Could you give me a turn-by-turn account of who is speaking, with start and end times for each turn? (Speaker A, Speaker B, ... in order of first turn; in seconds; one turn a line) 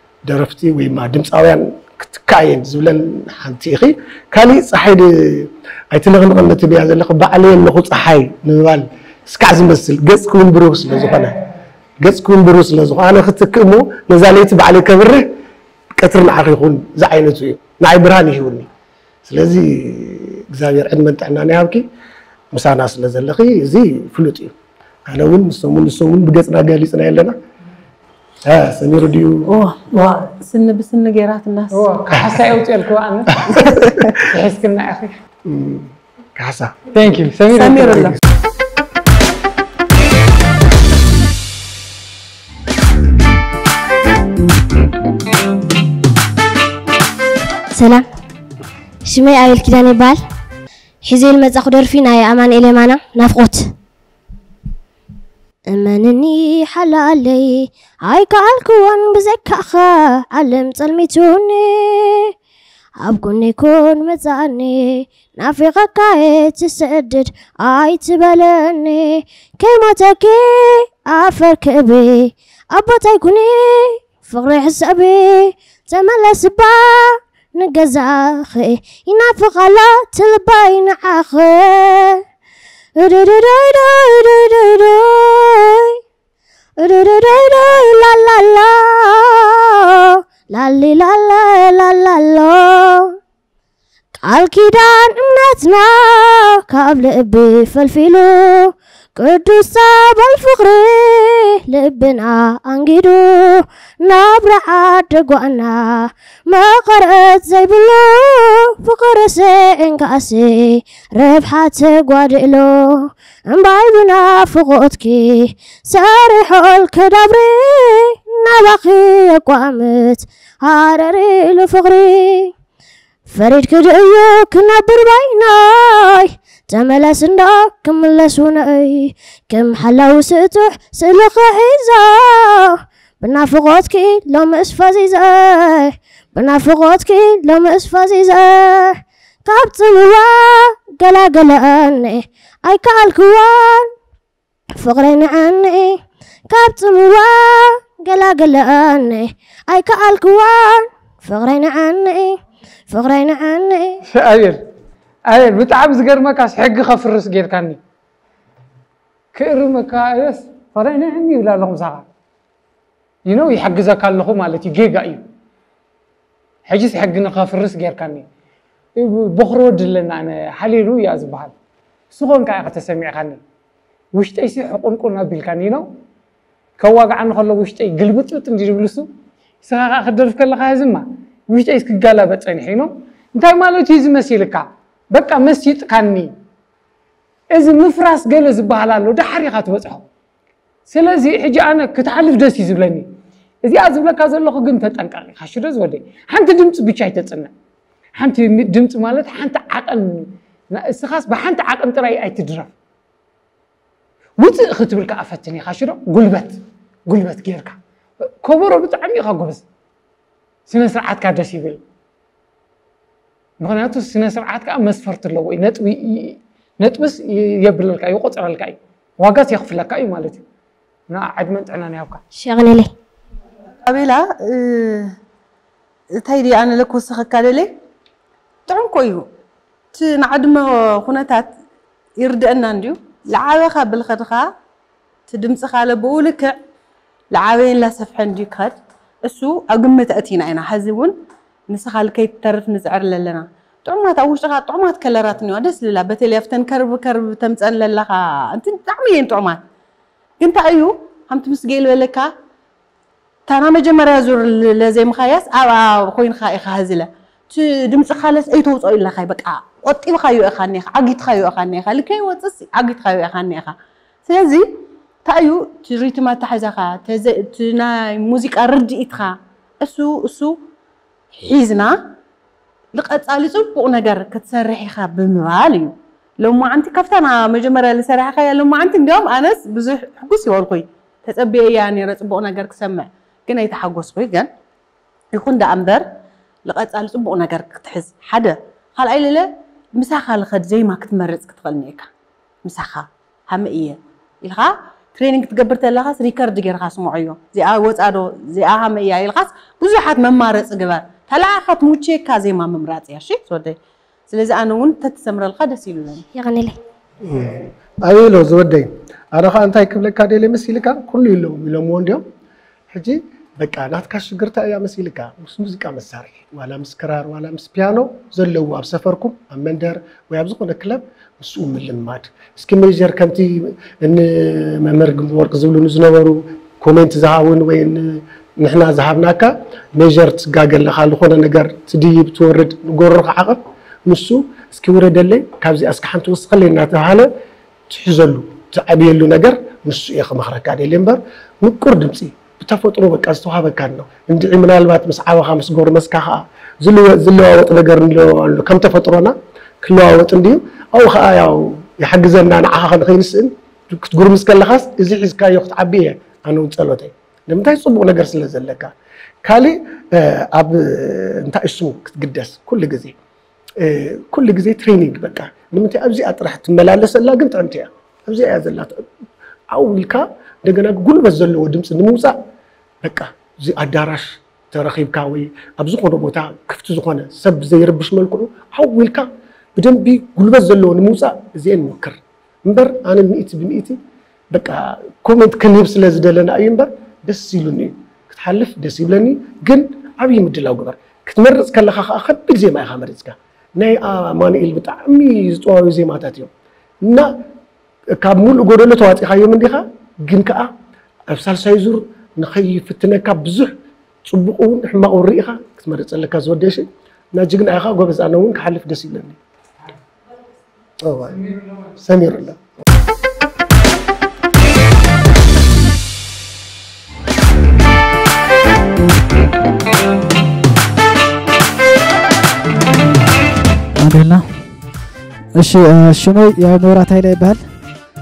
Speaker A: 0.3-11.4
Speaker A: 12.0-15.3
Speaker A: 16.0-18.7
Speaker A: 19.3-21.9
Speaker A: 22.5-24.5
Speaker A: 25.1-27.4
Speaker A: 28.4-29.5
Speaker B: 29.5-31.9
Speaker C: 31.8-33.6
Speaker A: 32.1-32.5
Speaker B: 33.5-34.0
Speaker A: 33.6-34.1
Speaker C: 34.3-35.1
Speaker A: 35.5-36.8
Speaker C: 36.9-38.2
Speaker B: 37.5-38.1
Speaker D: 47.7-48.1
Speaker D: 49.1-50.2
Speaker D: 51.1-53.7
Speaker D: 55.7-62.3
Speaker D: 63.0-82.2
Speaker D: 83.0-86.0
Speaker D: 86.8-93.2
Speaker D: 94.2-122.5
Speaker D: 123.3-143.9
Speaker D: 144.8-152.4
Speaker D: 152.9-154.0
Speaker C: 154.1-154.6
Speaker C: 155.3-157.8
Speaker C: 159.3-162.1
Speaker C: 163.3-165.2
Speaker C: 166.7-168.2
Speaker C: 169.0-171.5
Speaker C: 172.1-173.4
Speaker C: 174.2-175.9
Speaker C: 176.8-179.1
Speaker C: 179.6-186.3
Speaker C: 187.5-190.1
Speaker C: 190.9-193.1
Speaker C: 193.6-197.5
Speaker C: 198.2-202.7
Speaker C: 204.4-209.6
Speaker C: 210.7-211.8
Speaker C: 213.6-220.4
Speaker C: 221.1-222.2
Speaker D: 222.3-222.9
Speaker B: 223.9-225.1
Speaker B: 226.2-227.8
Speaker B: 228.7-229.3
Speaker B: 229.9-231.5
Speaker B: 232.2-234.5
Speaker B: 235.3-236.6
Speaker B: 237.3-238.8
Speaker B: 239.3-241.2
Speaker B: 241.7-249.6
Speaker B: 250.4-252.3
Speaker B: 253.5-263.8
Speaker B: 264.3-264.7
Speaker B: 265.2-270.6
Speaker B: 271.4-272.0
Speaker B: 272.9-284.5
Speaker B: 285.3-286.1
Speaker B: 286.7-292.1
Speaker B: 292.6-303.8
Speaker B: 304.3-306.2
Speaker D: 306.3-306.8
Speaker A: 307.2-312.2
Speaker A: 312.9-337.3
Speaker A: 337.9-358.9
Speaker A: 359.4-363.2
Speaker A: 363.8-369.0
Speaker A: 369.7-372.4
Speaker A: 373.0-384.0
Speaker A: 384.5-396.5
Speaker A: 397.0-397.3
Speaker A: 398.2-400.7
Speaker A: 401.3-403.7
Speaker A: 404.3-409.4
Speaker A: 411.0-411.4
Speaker A: 411.9-412.6
Speaker E: 424.0-424.7
Speaker E: 425.6-427.7